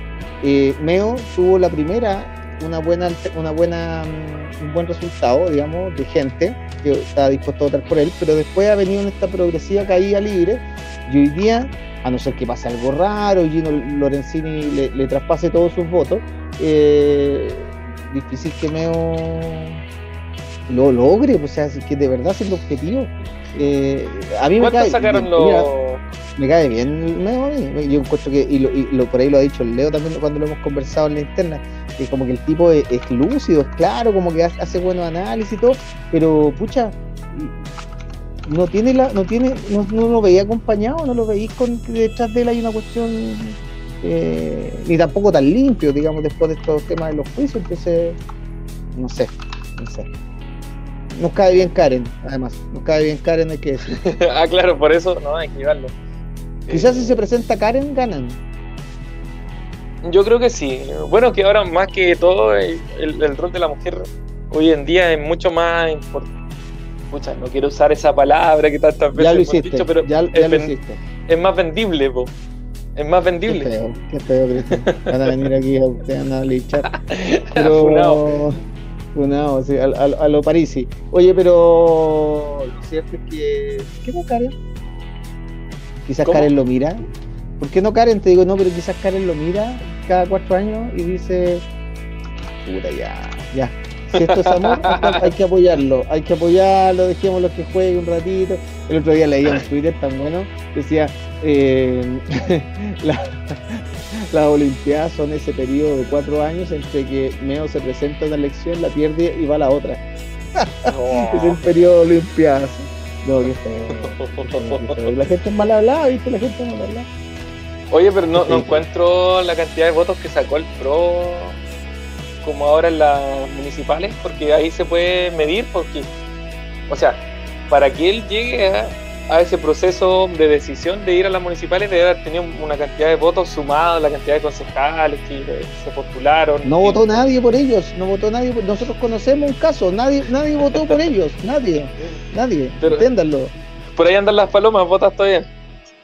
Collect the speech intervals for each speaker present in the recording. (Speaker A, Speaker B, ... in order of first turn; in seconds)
Speaker A: 0.4-19.8, 20.7-25.7, 26.4-37.6, 38.5-48.2, 49.0-50.1, 51.2-54.0, 56.7-58.4, 69.1-71.0, 73.5-76.9, 77.5-78.6, 79.2-84.5, 86.1-87.0, 87.6-91.6, 92.6-110.0, 110.6-117.1, 118.3-118.8, 136.7-143.5
Speaker B: 24.6-26.0, 53.9-55.9, 56.7-57.2, 60.0-66.3, 67.1-70.7, 71.3-72.3, 73.0-73.7, 74.9-75.4, 76.9-78.3, 94.1-95.3, 110.9-111.6, 113.9-115.1, 117.9-121.6, 122.4-126.1, 126.9-137.0, 144.0-145.5